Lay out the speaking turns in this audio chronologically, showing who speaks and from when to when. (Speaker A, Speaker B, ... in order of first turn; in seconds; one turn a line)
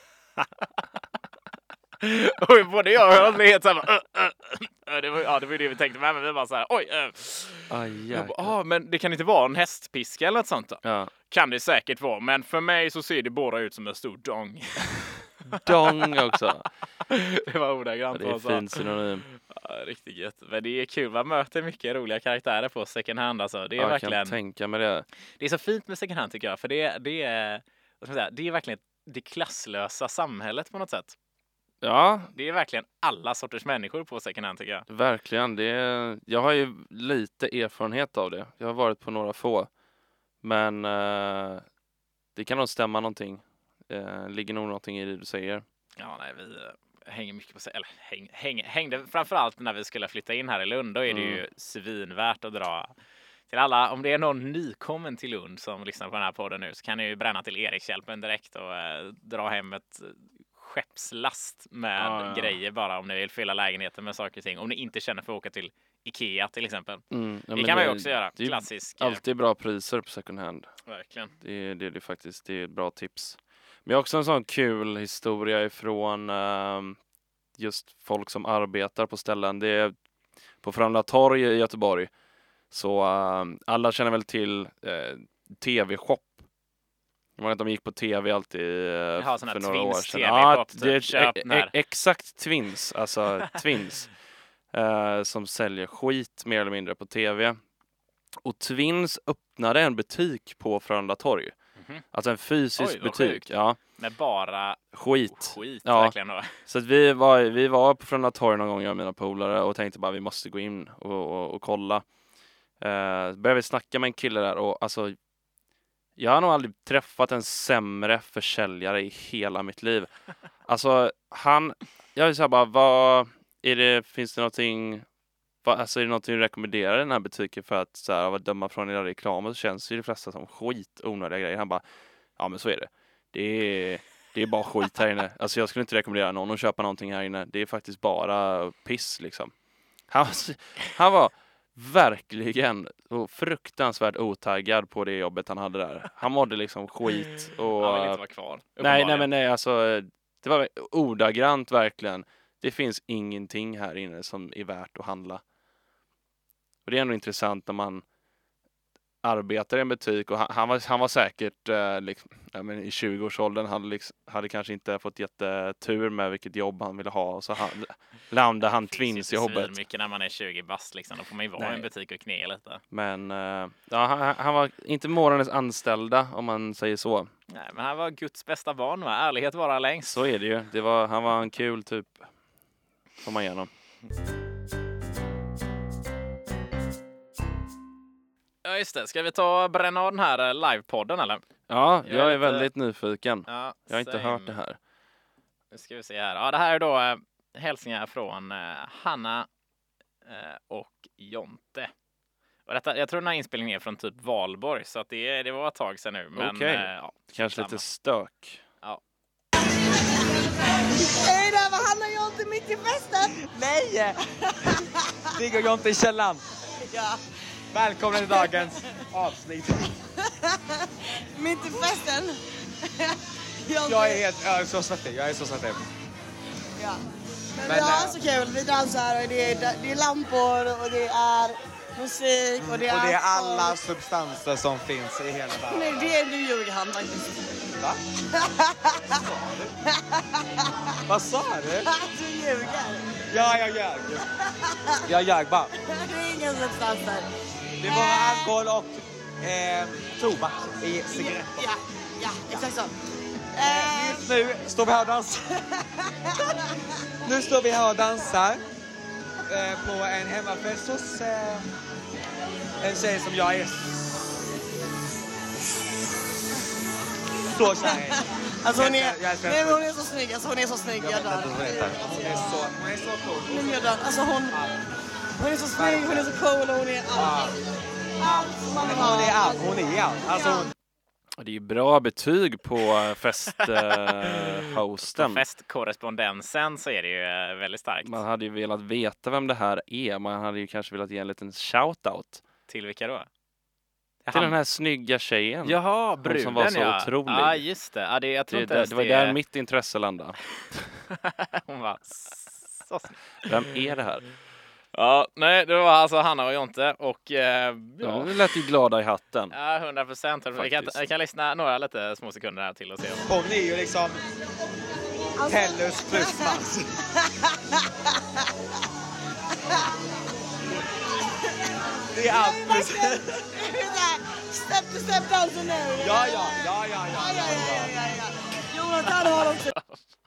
Speaker A: 2.0-14.9
Speaker B: 7.7-8.5
Speaker B: 10.8-11.1
Speaker A: 15.5-16.1
Speaker B: 15.5-16.6
Speaker A: 17.1-24.4
Speaker B: 18.1-19.2
Speaker B: 23.8-25.1
Speaker A: 25.4-31.1
Speaker B: 31.8-32.3
Speaker A: 32.3-34.9
Speaker B: 34.9-39.7
Speaker B: 40.4-41.6
Speaker B: 42.3-45.6
Speaker A: 46.0-52.9
Speaker B: 51.1-51.4
Speaker A: 53.5-67.0
Speaker B: 62.0-62.6
Speaker B: 67.1-70.7
Speaker A: 67.5-69.2
Speaker A: 70.9-71.3
Speaker B: 71.4-77.0
Speaker B: 77.6-79.9
Speaker B: 80.6-82.1
Speaker B: 82.7-86.3
Speaker B: 87.4-94.1
Speaker A: 89.2-91.7
Speaker B: 94.7-97.6
Speaker B: 98.4-101.5
Speaker A: 101.8-102.0
Speaker B: 102.1-103.8
Speaker A: 102.8-106.6
Speaker B: 104.9-112.0
Speaker B: 112.8-115.2
Speaker B: 116.2-120.1
Speaker B: 120.6-125.0
Speaker B: 125.6-131.8
Speaker B: 132.4-139.5
Speaker B: 140.1-148.2
Speaker A: 147.8-149.3
Speaker B: 148.8-155.4
Speaker B: 156.8-158.0
Speaker B: 159.2-169.8
Speaker A: 168.7-172.8
Speaker B: 171.6-171.9
Speaker B: 172.9-177.3
Speaker A: 177.5-180.2
Speaker B: 180.0-182.3
Speaker B: 183.2-183.7
Speaker A: 188.6-191.4
Speaker B: 191.7-194.8
Speaker A: 192.0-192.7
Speaker A: 193.5-194.6
Speaker A: 195.7-199.5
Speaker A: 200.2-201.9
Speaker A: 202.7-207.8
Speaker B: 206.3-208.6
Speaker C: 210.8-213.5
Speaker D: 213.5-214.8
Speaker C: 214.2-215.0
Speaker D: 215.3-216.4
Speaker C: 216.8-217.2
Speaker D: 217.7-219.9
Speaker C: 218.1-218.9
Speaker C: 220.3-224.2
Speaker D: 223.8-225.8
Speaker C: 227.6-233.8
Speaker D: 227.6-228.2
Speaker D: 232.6-236.2
Speaker C: 235.7-237.5
Speaker C: 238.3-239.2
Speaker D: 239.2-239.7
Speaker C: 239.8-240.7
Speaker D: 241.1-241.9
Speaker C: 241.8-243.1
Speaker D: 243.3-244.2
Speaker C: 244.4-245.0
Speaker D: 245.1-245.7
Speaker C: 245.8-247.3
Speaker D: 247.8-251.7
Speaker C: 247.8-248.5
Speaker C: 251.1-252.9
Speaker C: 253.5-254.3
Speaker D: 253.6-255.5
Speaker D: 257.2-258.6
Speaker D: 259.5-261.7
Speaker D: 262.8-264.0
Speaker D: 267.5-269.8
Speaker C: 267.6-272.7
Speaker D: 271.0-273.9
Speaker C: 273.5-274.6
Speaker C: 275.4-277.6
Speaker D: 275.7-276.3
Speaker D: 277.1-277.5
Speaker C: 278.2-279.8
Speaker D: 278.3-280.7
Speaker C: 280.3-280.7
Speaker B: 281.4-285.4
Speaker A: 283.8-288.2
Speaker B: 288.0-292.4
Speaker A: 292.7-293.3
Speaker A: 294.2-294.5
Speaker B: 294.3-297.6
Speaker A: 295.6-299.4
Speaker B: 298.5-300.9
Speaker A: 301.1-303.6
Speaker B: 303.4-304.2
Speaker A: 304.9-308.4
Speaker B: 308.0-309.5
Speaker A: 309.5-313.3
Speaker B: 310.6-311.0
Speaker D: 313.2-314.2
Speaker C: 315.4-316.6
Speaker D: 315.4-316.9
Speaker C: 317.2-317.8
Speaker C: 321.6-329.7
Speaker D: 322.1-323.3
Speaker D: 326.0-327.9